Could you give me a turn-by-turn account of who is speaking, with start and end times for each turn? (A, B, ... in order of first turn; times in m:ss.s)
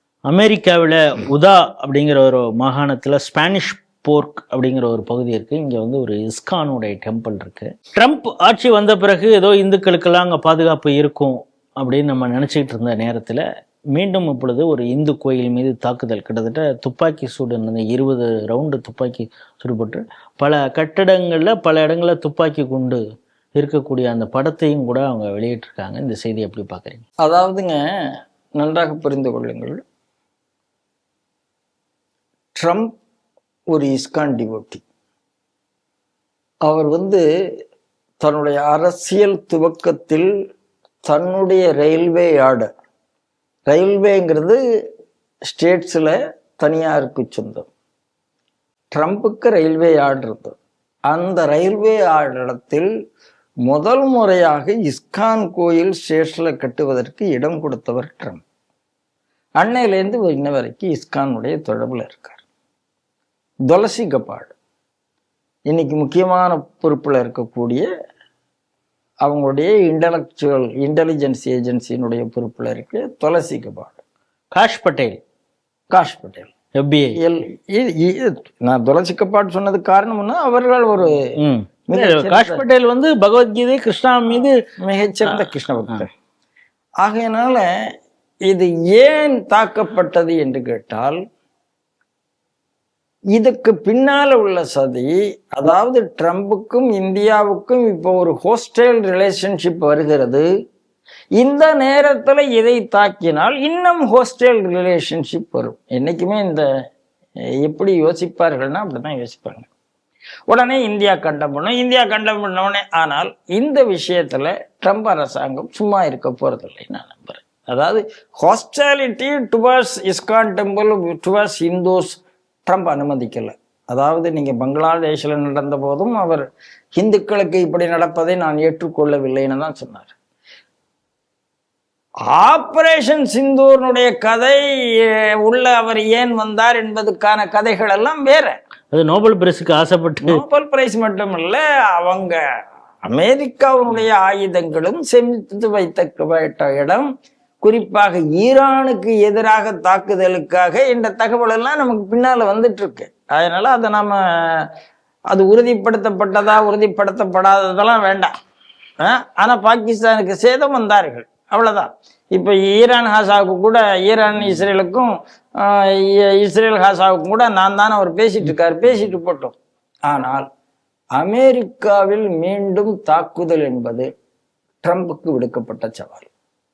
0:00.3-0:13.4 A
0:13.9-0:23.0 A
0:23.6-0:27.0 A
0:27.2-0:27.8 B
0:28.6-0:29.8 B
0:32.6-0:32.9 B
0:33.7-0:34.8 B
0:36.6-0:37.2 B
0:38.2-0:40.3 B
0:41.1-0:42.7 B
0:43.7-0:44.6 B
0:45.5-0:47.7 B
0:48.9-0:50.6 B
0:51.1-0:52.9 B
0:53.6-0:58.4 B
0:59.6-1:02.4 B
1:03.7-1:04.5 B
1:05.7-1:07.8 B
1:09.2-1:14.0 B
1:14.5-1:15.2 A
1:15.9-1:16.5 B
1:16.8-1:17.2 A
1:17.2-1:21.2 B
1:21.4-1:24.6 A
1:21.9-1:22.6 B
1:24.8-1:26.1 B
1:25.2-1:26.0 A
1:27.0-1:27.7 B
1:28.5-1:31.2 B
1:33.3-1:40.5 B
1:41.4-1:46.6 B
1:47.6-1:49.7 B
1:50.5-2:06.4 B
2:07.0-2:10.1 B
2:12.3-2:18.5 B
2:18.9-2:20.4 A
2:20.2-2:22.4 B
2:23.0-2:27.1 B
2:27.6-2:34.7 B
2:35.3-2:38.3 B
2:39.0-2:49.6 B
2:50.1-2:50.4 B
2:51.2-2:54.1 B
2:54.8-2:56.3 B